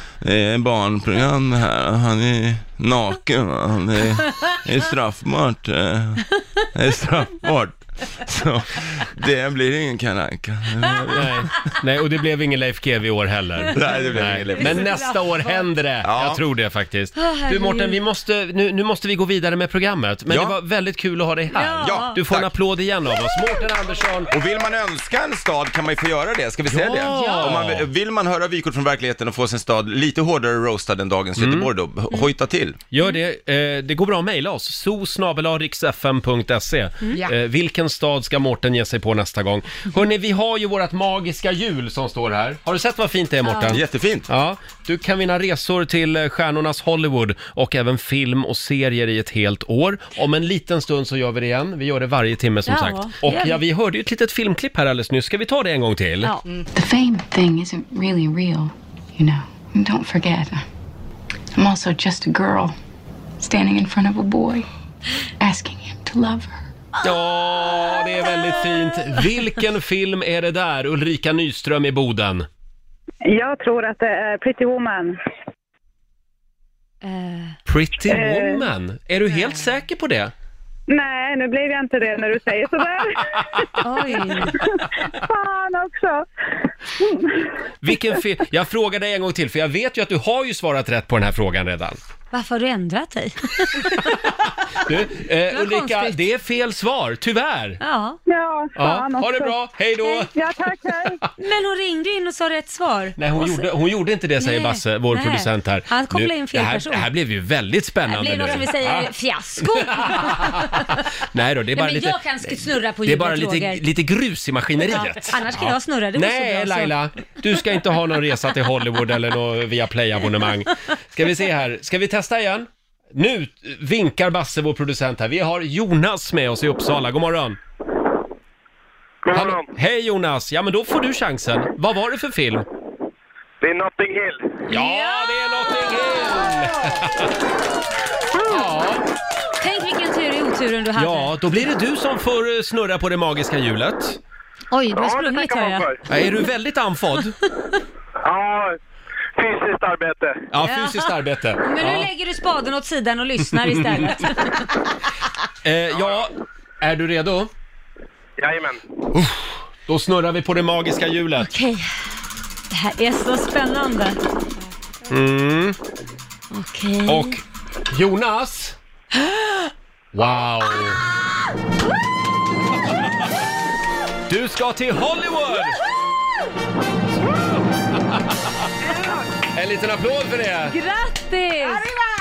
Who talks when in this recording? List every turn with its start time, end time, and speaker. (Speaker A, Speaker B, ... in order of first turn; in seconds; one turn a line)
Speaker A: 0.2-11.3
Speaker B: 11.0-24.3
Speaker A: 13.7-15.1
Speaker C: 13.8-15.7
Speaker A: 16.0-16.4
Speaker C: 17.2-18.0
Speaker A: 20.3-20.6
Speaker C: 21.5-22.2
Speaker A: 21.8-22.5
Speaker A: 24.3-32.8
Speaker B: 26.7-27.9
Speaker C: 27.1-27.5
Speaker B: 31.4-31.7
Speaker B: 32.9-56.4
Speaker C: 37.0-37.3
Speaker C: 43.5-43.8
Speaker A: 43.7-44.3
Speaker C: 52.7-53.6
Speaker D: 56.7-60.6
Speaker D: 61.5-62.8
Speaker D: 63.4-64.7
Speaker D: 65.4-66.6
Speaker B: 67.0-72.5
Speaker E: 73.2-75.2
Speaker C: 77.0-77.6
Speaker B: 77.7-80.3
Speaker E: 78.1-78.7
Speaker E: 80.9-83.7
Speaker B: 83.5-83.8
Speaker C: 83.8-84.6
Speaker E: 84.6-86.3
Speaker E: 87.0-87.5
Speaker B: 87.8-92.0
Speaker C: 92.3-94.3
Speaker B: 93.8-97.8
Speaker C: 95.5-96.2
Speaker C: 97.8-98.2
Speaker E: 98.3-99.6
Speaker B: 98.8-100.3
Speaker E: 100.2-101.2
Speaker B: 100.8-101.3
Speaker C: 101.4-103.7
Speaker B: 103.2-127.6
Speaker C: 104.4-107.1
Speaker C: 108.1-111.0
Speaker C: 111.8-113.8
Speaker C: 114.9-117.0
Speaker F: 129.2-129.7
Speaker B: 129.3-132.7
Speaker F: 133.6-134.6
Speaker B: 134.7-137.3
Speaker C: 134.7-135.3
Speaker B: 138.4-139.0
Speaker C: 139.6-141.4
Speaker B: 141.0-144.2
Speaker C: 144.7-145.9
Speaker F: 144.9-146.0
Speaker B: 146.1-147.4
Speaker F: 148.2-148.8
Speaker F: 149.4-150.5
Speaker B: 150.5-152.1
Speaker C: 150.6-154.8
Speaker B: 153.5-154.2
Speaker B: 155.6-157.5
Speaker F: 155.9-156.3
Speaker F: 158.4-158.8
Speaker B: 159.2-161.5
Speaker C: 161.4-161.9
Speaker C: 162.7-164.2
Speaker B: 165.1-165.8
Speaker C: 166.5-167.4
Speaker B: 167.1-168.8
Speaker C: 169.1-169.7
Speaker B: 170.1-171.0
Speaker B: 174.3-175.8
Speaker B: 179.5-180.8
Speaker C: 180.7-182.0